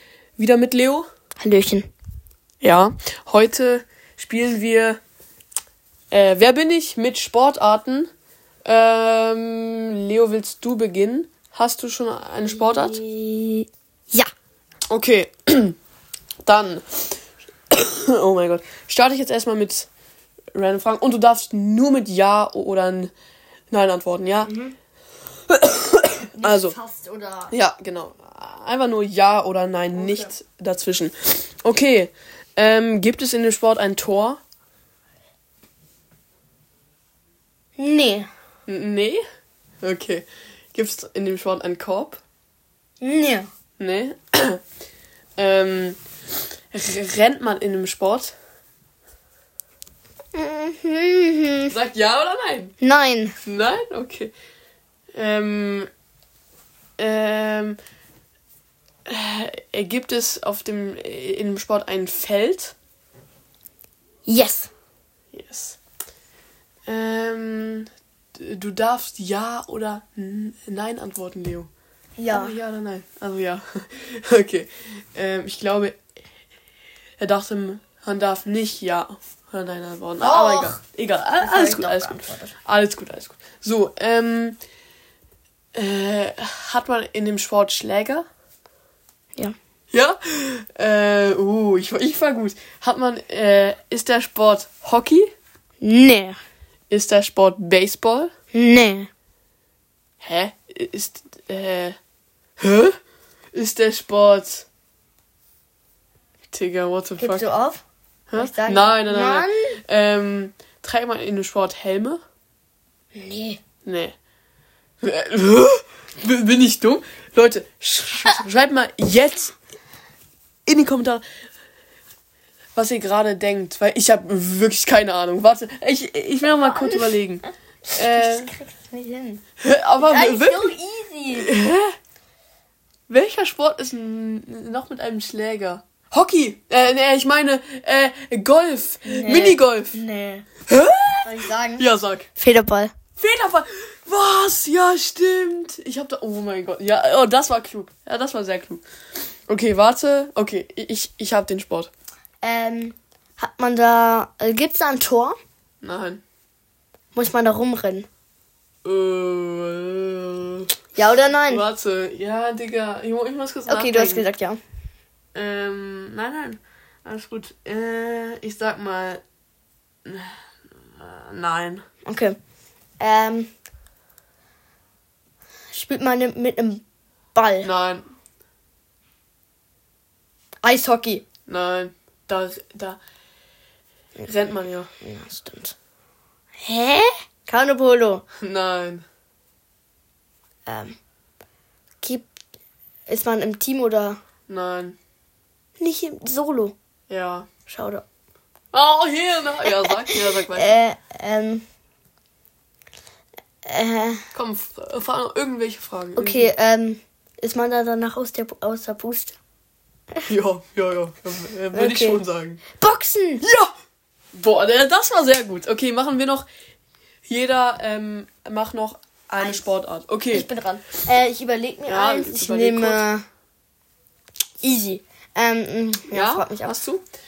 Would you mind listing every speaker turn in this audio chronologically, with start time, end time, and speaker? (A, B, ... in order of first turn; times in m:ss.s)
0:00.4-0:01.1 A
0:01.4-0:01.9 B
0:02.6-0:05.0 A
0:06.1-0:08.1 A
0:08.6-0:13.0 A
0:12.5-0:14.3 B
0:14.9-0:15.8 A
0:16.4-0:19.9 A
0:20.5-0:23.1 A
0:23.7-0:24.5 A
0:24.4-0:24.7 B
0:25.5-0:26.8 A
0:26.4-0:27.5 B
0:27.5-0:34.4 A
0:29.9-0:30.3 B
0:37.8-0:38.3 B
0:38.7-0:39.2 A
0:39.8-0:42.2 A
0:43.0-0:43.5 B
0:43.8-0:44.6 A
0:45.4-0:46.0 A
0:46.7-0:48.3 A
0:50.3-0:51.7 B
0:51.7-0:52.8 A
0:52.8-0:53.3 B
0:53.4-0:54.3 A
0:55.1-0:55.9 A
0:57.0-0:57.8 A
0:59.1-1:02.7 A
1:04.2-1:04.7 B
1:05.3-1:05.8 A
1:06.9-1:11.7 A
1:12.2-1:12.6 B
1:12.3-1:16.0 A
1:17.2-1:24.6 A
1:20.2-1:20.8 B
1:21.4-1:22.5 B
1:25.7-1:28.2 A
1:29.9-1:35.3 A
1:35.8-1:36.4 B
1:36.9-1:38.3 A
1:38.5-1:39.1 B
1:40.2-1:42.0 A
1:42.6-1:43.0 A
1:43.5-1:44.6 A
1:46.5-1:47.5 A
1:47.2-1:47.8 B
1:48.3-1:52.2 A
1:48.4-1:49.8 B
1:53.1-1:53.6 B
1:53.8-1:54.1 A
1:55.0-1:59.5 A
2:00.6-2:01.2 A
2:02.8-2:08.5 A
2:06.4-2:07.2 B
2:07.9-2:09.4 B
2:09.6-2:10.7 A
2:10.0-2:11.5 B
2:11.3-2:11.9 A
2:13.1-2:20.0 A
2:19.0-2:20.5 B
2:20.7-2:22.3 A
2:21.2-2:21.8 B
2:22.4-2:22.9 B
2:23.2-2:28.8 A
2:29.5-2:31.9 A
2:32.4-2:35.4 B
2:35.8-2:36.2 A
2:37.1-2:38.1 B
2:38.8-2:40.7 A
2:41.0-2:41.6 B
2:41.5-2:44.2 A
2:43.7-2:44.6 B
2:45.3-2:49.2 A
2:50.0-2:50.4 A
2:50.9-2:51.8 A
2:52.0-2:52.4 B
2:53.0-2:53.5 B
2:55.7-2:56.8 B
2:57.3-2:57.7 B
2:57.6-2:58.1 A
3:00.6-3:01.2 B
3:01.5-3:03.0 A
3:04.2-3:04.9 A
3:05.0-3:05.7 B
3:06.6-3:08.2 B
3:08.4-3:09.0 A
3:10.6-3:11.0 B
3:12.0-3:12.3 B
3:13.1-3:14.2 B
3:14.5-3:15.0 A
3:15.8-3:16.7 B
3:17.1-3:17.5 A
3:17.7-3:18.0 B
3:18.7-3:20.8 A
3:19.6-3:21.6 B
3:23.6-3:24.2 B
3:24.3-3:26.5 A
3:26.2-3:29.4 B
3:30.2-3:32.6 A
3:31.7-3:32.2 B
3:32.8-3:33.4 B
3:33.4-3:33.7 A
3:34.3-3:36.4 A
3:37.3-3:40.5 A
3:39.4-3:39.6 B
3:40.3-3:43.2 B
3:41.9-3:43.0 A
3:44.6-3:46.7 B
3:46.1-3:47.0 A